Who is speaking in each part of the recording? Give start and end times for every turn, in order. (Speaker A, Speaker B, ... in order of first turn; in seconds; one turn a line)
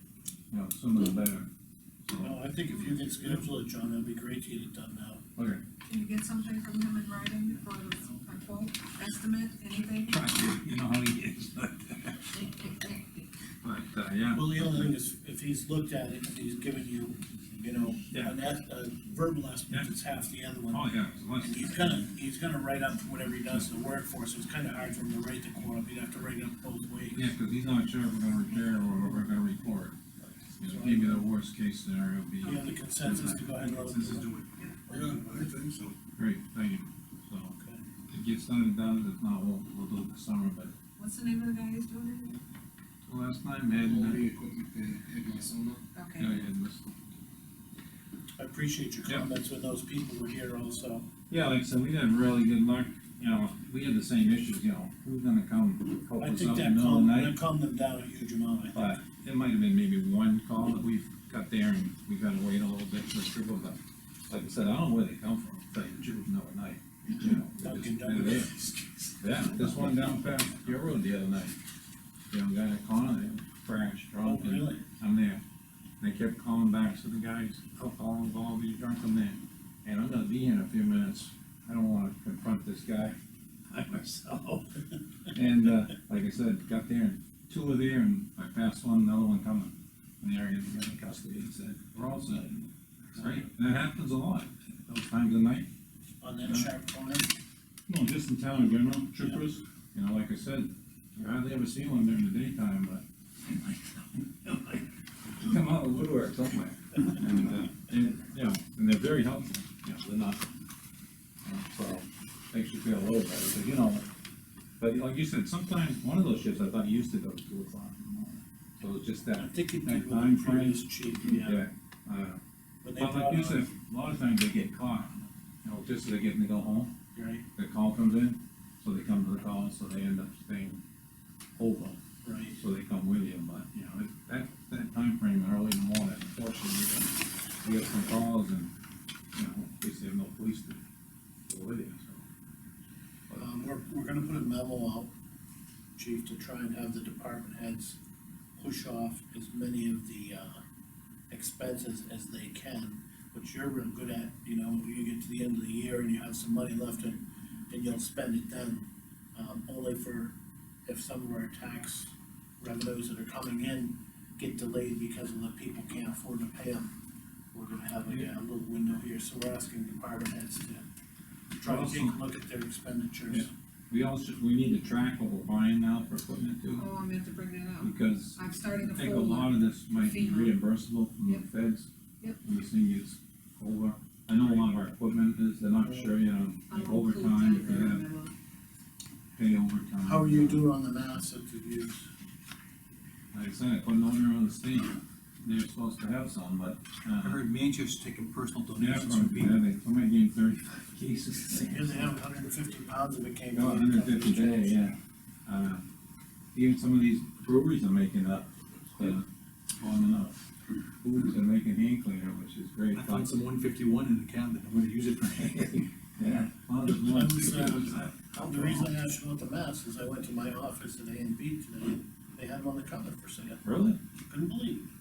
Speaker A: 0.5-1.5
Speaker A: 2.0-2.4
Speaker B: 2.2-5.2
Speaker A: 5.3-5.6
Speaker C: 5.8-10.3
Speaker A: 10.0-12.3
Speaker C: 12.7-13.0
Speaker A: 13.6-14.9
Speaker B: 14.3-27.3
Speaker A: 20.7-22.1
Speaker A: 27.1-29.9
Speaker B: 30.2-31.2
Speaker A: 30.6-33.5
Speaker B: 32.4-35.6
Speaker D: 33.9-35.9
Speaker A: 36.2-37.5
Speaker A: 38.1-40.7
Speaker C: 41.0-42.4
Speaker A: 43.1-44.3
Speaker D: 43.8-45.8
Speaker C: 45.9-46.4
Speaker A: 46.2-46.9
Speaker B: 48.4-51.1
Speaker A: 51.3-57.4
Speaker B: 56.2-58.8
Speaker A: 58.7-68.5
Speaker B: 67.5-69.8
Speaker A: 69.2-71.5
Speaker A: 72.3-75.4
Speaker B: 74.2-74.8
Speaker A: 76.0-83.2
Speaker A: 83.7-84.5
Speaker A: 85.3-95.7
Speaker B: 93.2-93.4
Speaker B: 96.2-97.3
Speaker A: 96.4-96.7
Speaker A: 97.9-110.4
Speaker A: 111.4-114.1
Speaker A: 114.8-122.4
Speaker B: 119.3-121.6
Speaker B: 122.8-123.7
Speaker A: 123.0-126.9
Speaker B: 127.1-127.4
Speaker A: 127.5-130.8
Speaker A: 131.6-132.0
Speaker B: 132.2-132.6
Speaker A: 132.5-138.7
Speaker A: 139.3-140.8
Speaker A: 141.5-142.2
Speaker B: 143.3-145.1
Speaker B: 146.0-148.0
Speaker B: 148.6-150.6
Speaker B: 151.3-160.3
Speaker B: 160.8-166.9
Speaker B: 167.5-170.8
Speaker B: 171.6-173.5
Speaker A: 171.6-172.2
Speaker A: 173.3-176.9
Speaker C: 176.7-180.6
Speaker A: 177.8-188.1
Speaker B: 185.8-186.1
Speaker C: 186.7-188.3
Speaker A: 189.3-190.7
Speaker B: 190.0-192.1
Speaker A: 193.3-197.4
Speaker D: 197.2-199.5
Speaker A: 198.8-202.1
Speaker B: 201.7-204.9
Speaker A: 203.5-205.9
Speaker A: 206.5-209.2
Speaker A: 209.8-210.3
Speaker A: 211.0-213.4
Speaker D: 212.9-215.9
Speaker A: 216.2-218.4
Speaker B: 216.9-223.6
Speaker D: 218.2-218.7
Speaker A: 223.6-224.0
Speaker B: 224.3-224.9